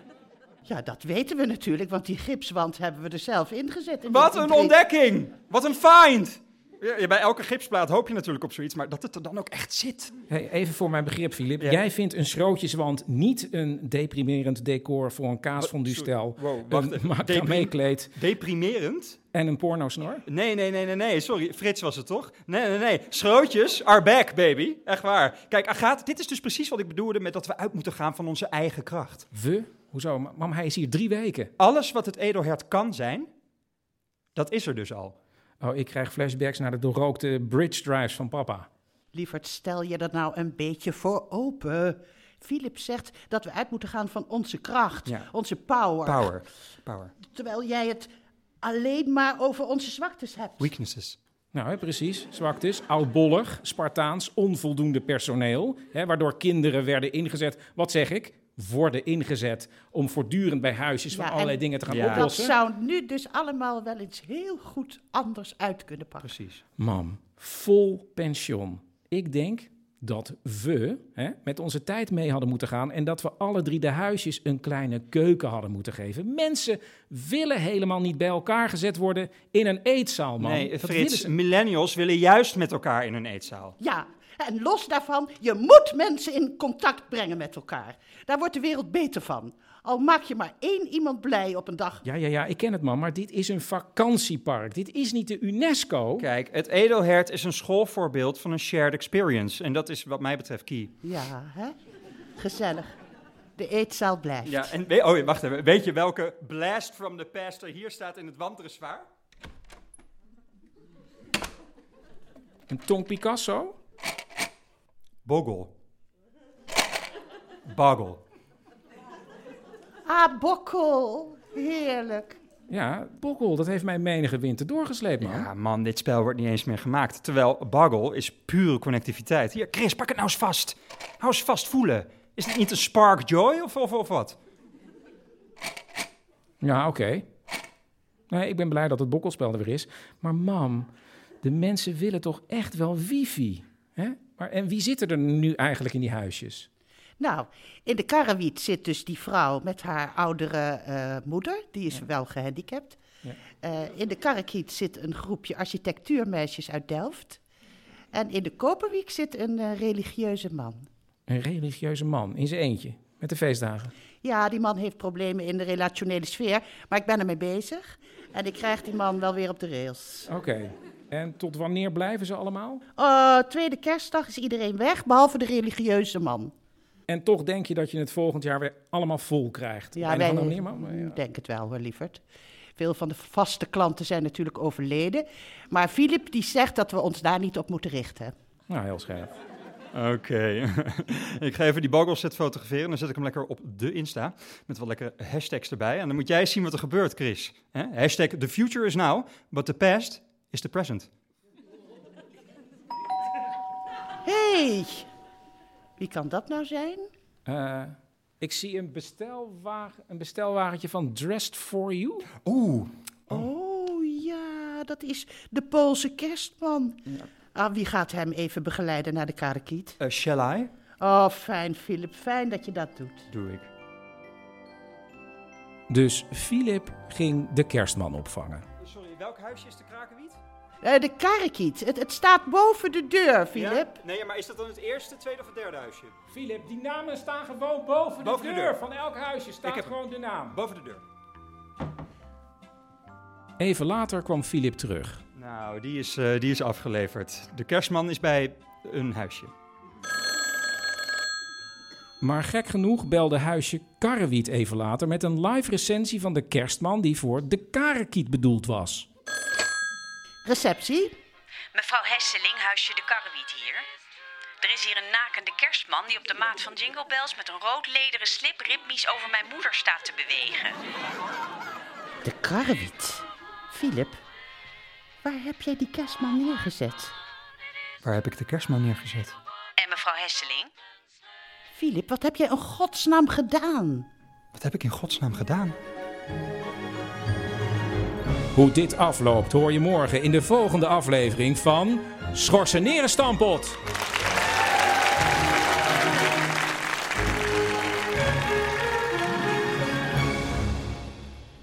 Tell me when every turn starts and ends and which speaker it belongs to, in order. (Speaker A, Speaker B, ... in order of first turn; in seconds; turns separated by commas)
Speaker A: 0.7-4.8, Speaker B: 4.1-10.1, Speaker C: 10.3-18.1, Speaker B: 15.6-19.2, Speaker C: 19.3-20.2, Speaker B: 20.3-29.3, Speaker C: 29.3-31.5, Speaker B: 31.6-33.3, Speaker B: 34.4-35.1, Speaker C: 35.6-38.7, Speaker A: 39.1-46.3, Speaker B: 46.0-47.1, Speaker A: 47.2-48.1, Speaker A: 48.6-50.7, Speaker B: 50.6-51.2, Speaker C: 51.5-62.5, Speaker A: 61.1-66.3, Speaker B: 61.9-62.3, Speaker B: 66.2-66.6, Speaker C: 66.8-81.3, Speaker B: 80.4-83.8, Speaker A: 83.8-92.0, Speaker C: 92.0-96.3, Speaker B: 96.2-100.9, Speaker A: 101.0-101.7, Speaker A: 102.4-102.9, Speaker A: 103.6-104.7, Speaker B: 104.4-109.1, Speaker C: 112.7-113.8, Speaker B: 115.2-115.7, Speaker B: 117.7-118.2, Speaker A: 120.0-122.4, Speaker C: 122.7-125.5, Speaker B: 125.2-134.4, Speaker C: 136.6-137.2, Speaker C: 138.3-140.9, Speaker C: 141.4-146.7, Speaker A: 147.2-153.0, Speaker A: 153.6-157.4, Speaker A: 158.1-160.9, Speaker C: 161.3-163.9, Speaker A: 164.2-170.3, Speaker C: 170.3-172.8, Speaker A: 173.0-176.5, Speaker C: 177.1-181.2, Speaker A: 179.9-182.2, Speaker A: 182.8-188.3, Speaker C: 188.7-189.3, Speaker B: 189.9-201.1, Speaker A: 204.2-205.1, Speaker A: 206.0-207.1, Speaker C: 207.5-212.3, Speaker B: 212.3-213.4, Speaker A: 213.3-217.0, Speaker A: 217.5-220.0, Speaker B: 220.0-220.7, Speaker A: 221.0-223.3, Speaker B: 223.3-223.7, Speaker C: 225.9-228.7, Speaker B: 228.8-230.4, Speaker A: 230.8-234.0, Speaker B: 233.5-236.1, Speaker C: 236.3-240.6, Speaker B: 238.2-238.8, Speaker B: 239.6-240.0, Speaker B: 240.5-241.0, Speaker C: 243.6-245.2, Speaker B: 245.3-249.5, Speaker C: 252.2-259.1, Speaker A: 260.4-261.1, Speaker D: 261.7-263.8, Speaker D: 264.6-270.8, Speaker A: 272.2-274.2, Speaker A: 275.2-277.1, Speaker B: 278.0-279.3, Speaker D: 279.8-280.7, Speaker A: 281.7-284.1, Speaker B: 284.5-285.7, Speaker C: 288.5-293.8